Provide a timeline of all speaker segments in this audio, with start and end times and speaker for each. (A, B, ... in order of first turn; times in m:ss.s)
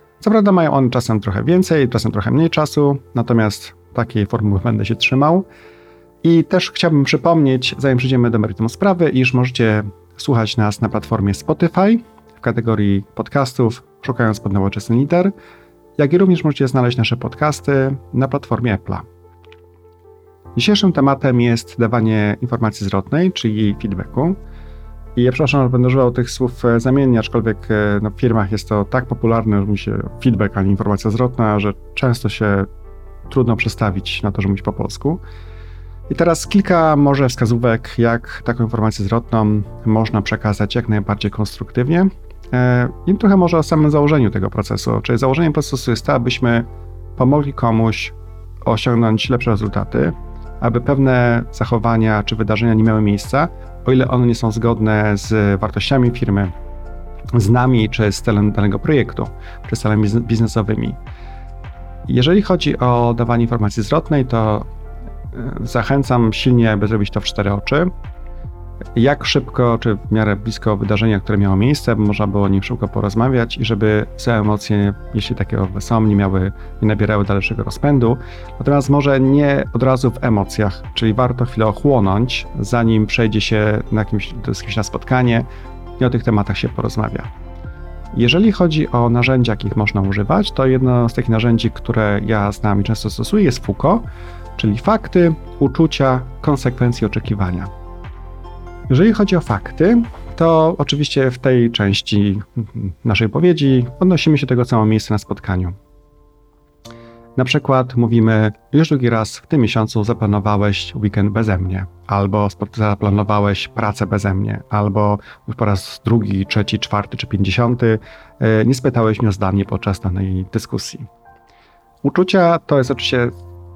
0:00.2-0:05.4 A
0:06.2-0:15.3 A
0:16.0-0:19.0 A
0:20.6-0:24.4 A
0:25.2-0:32.7 A
0:33.3-0:35.2 A
0:36.1-0:56.5 A
0:57.3-1:01.0 A
1:02.1-1:04.6 A
1:05.3-1:07.9 A
1:08.9-1:25.5 A
1:26.0-1:27.3 A
1:28.1-1:34.0 A
1:34.6-1:37.7 A
1:38.9-1:45.8 A
1:47.4-2:01.1 A
2:02.0-2:03.3 A